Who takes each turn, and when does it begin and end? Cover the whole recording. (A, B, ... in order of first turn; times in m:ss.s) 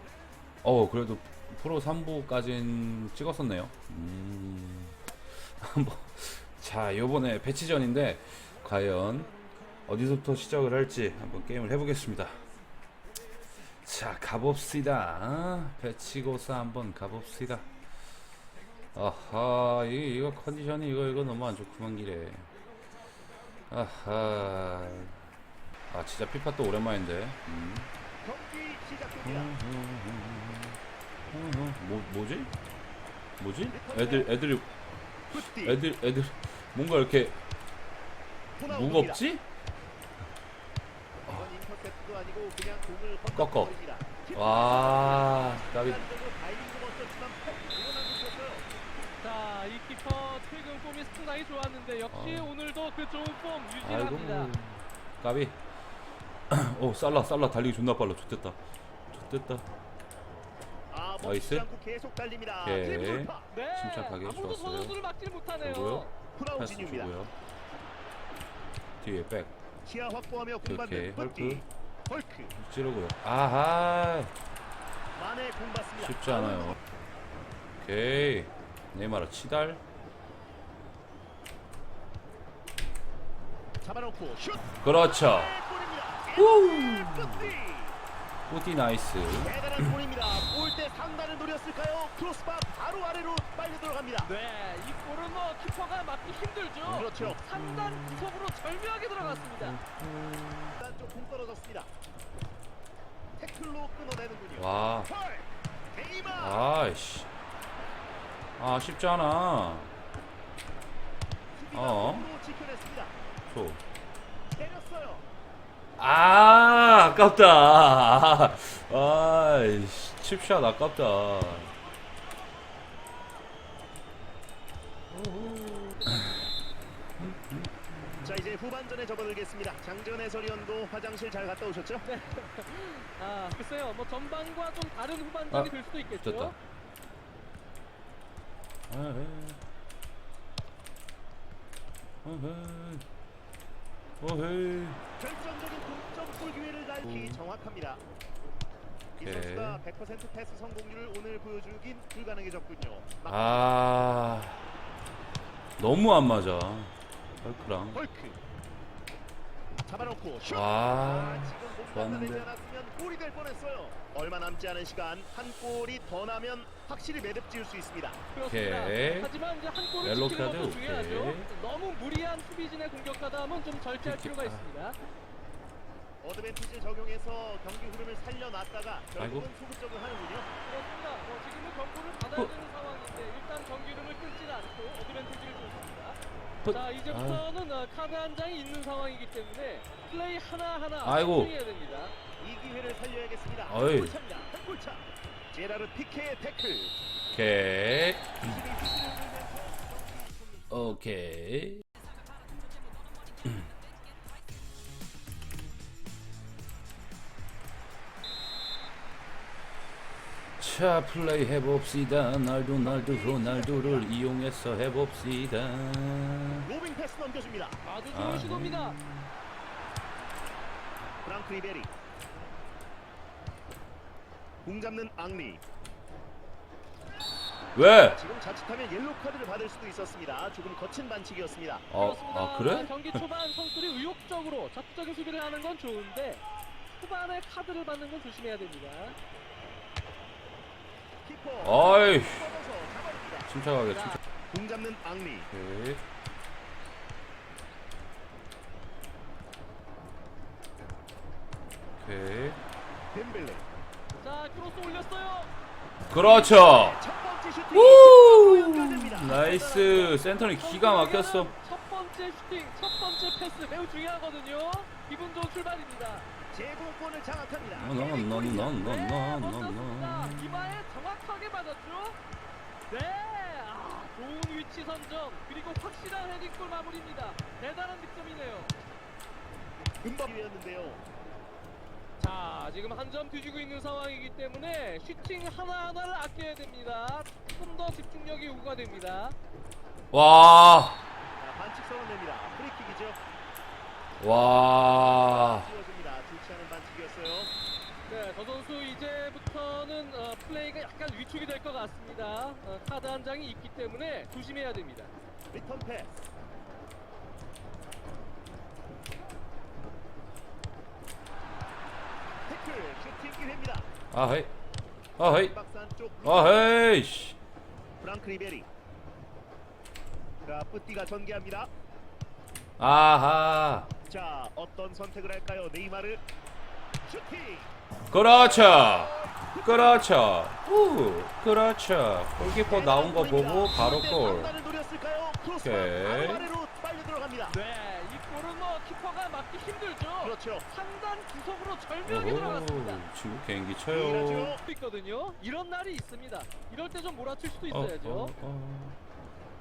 0:00.6-0:09.3 A
0:09.8-0:12.4 A
0:13.8-0:17.7 A
0:18.9-0:22.5 A
0:23.7-0:25.2 A
0:25.9-0:27.9 A
0:28.2-0:29.5 B
0:29.2-0:30.8 A
0:31.3-0:32.5 A
0:33.4-0:34.7 A
0:33.7-0:34.3 B
0:35.3-0:37.4 A
0:35.3-0:35.8 B
0:38.6-0:39.2 B
0:38.7-0:39.4 A
0:41.2-0:48.7 B
0:43.3-0:43.8 A
0:44.3-0:46.0 A
0:49.2-0:54.5 C
0:52.1-0:52.5 A
0:53.8-0:55.6 A
0:56.5-0:58.6 A
0:59.1-0:59.7 A
1:00.9-1:03.5 B
1:01.2-1:01.7 A
1:02.6-1:05.0 A
1:03.5-1:06.1 C
1:05.6-1:07.3 A
1:06.4-1:07.1 B
1:09.0-1:09.6 A
1:09.8-1:12.5 B
1:10.6-1:11.6 A
1:12.5-1:14.3 A
1:15.1-1:16.8 B
1:16.0-1:16.8 A
1:17.8-1:19.8 A
1:23.8-1:28.0 B
1:24.8-1:25.6 A
1:26.4-1:27.6 A
1:28.5-1:29.5 A
1:29.4-1:34.3 B
1:34.2-1:39.8 C
1:36.8-1:38.3 A
1:37.0-1:37.4 B
1:39.2-1:40.8 A
1:40.8-1:41.9 B
1:43.4-1:46.6 B
1:44.6-1:45.1 A
1:46.4-1:47.3 A
1:48.6-1:49.9 A
1:51.5-1:53.2 B
1:51.7-1:52.3 A
1:53.5-1:53.8 A
1:54.5-1:55.2 B
1:56.0-2:01.7 A
2:05.1-2:06.5 A
2:07.2-2:08.5 A
2:08.2-2:12.0 B
2:12.0-2:16.5 C
2:15.5-2:16.5 A
2:18.9-2:19.6 A
2:22.2-2:23.0 A
2:24.2-2:25.0 A
2:25.2-2:28.0 B
2:27.0-2:27.4 A
2:29.2-2:29.8 A
2:29.2-2:33.6 B
2:33.3-2:34.6 A
2:35.8-2:38.0 A
2:37.9-2:38.4 B
2:39.8-2:48.2 B
2:40.4-2:42.5 A
2:48.3-2:55.0 C
2:48.4-2:49.3 A
2:50.0-2:51.5 A
2:54.0-2:54.6 A
2:56.2-3:00.5 B
2:59.2-2:59.5 A
3:00.6-3:12.1 C
3:06.6-3:07.4 A
3:11.0-3:11.5 A
3:12.4-3:16.9 B
3:13.7-3:14.2 A
3:17.3-3:18.5 A
3:18.4-3:20.7 B
3:20.7-3:21.8 A
3:30.6-3:36.6 A
3:32.8-3:34.1 B
3:36.6-3:37.8 B
3:37.8-3:39.0 C
3:38.1-3:39.3 A
3:41.2-3:41.9 B
3:44.6-3:45.6 B
3:47.7-3:48.2 A
3:48.0-3:51.9 B
3:51.9-3:53.2 A
3:51.9-3:59.2 C
4:01.2-4:03.5 B
4:01.6-4:02.5 A
4:03.4-4:04.2 A
4:03.9-4:04.2 C
4:04.5-4:05.5 B
4:05.5-4:06.0 A
4:12.0-4:12.6 A
4:13.1-4:13.6 B
4:14.2-4:15.5 C
4:16.1-4:17.0 A
4:16.2-4:20.1 B
4:17.7-4:21.5 A
4:20.6-4:26.3 C
4:26.5-4:28.7 B
4:27.7-4:30.8 A
4:28.0-4:32.2 C
4:32.9-4:38.7 C
4:40.0-4:41.0 B
4:42.2-4:49.4 C
4:50.1-4:51.0 A
4:51.4-4:53.2 B
4:54.2-4:55.7 A
4:54.8-4:57.5 B
4:58.1-5:05.1 C
5:05.5-5:06.1 B
5:12.5-5:13.9 B
5:14.1-5:14.5 A
5:15.2-5:15.5 A
5:15.2-5:16.7 B
5:16.2-5:17.4 A
5:18.0-5:18.7 B
5:20.4-5:21.7 B
5:22.8-5:23.9 A
5:24.1-5:26.2 B
5:27.0-5:27.7 B
5:28.1-5:34.5 A
5:28.3-5:30.0 B
5:32.6-5:37.6 B
5:35.6-5:36.5 A
5:37.5-5:43.0 C
5:40.2-5:40.6 B
5:42.0-5:44.6 A
5:43.9-5:44.6 B
5:44.6-5:48.3 C
5:47.7-5:49.0 A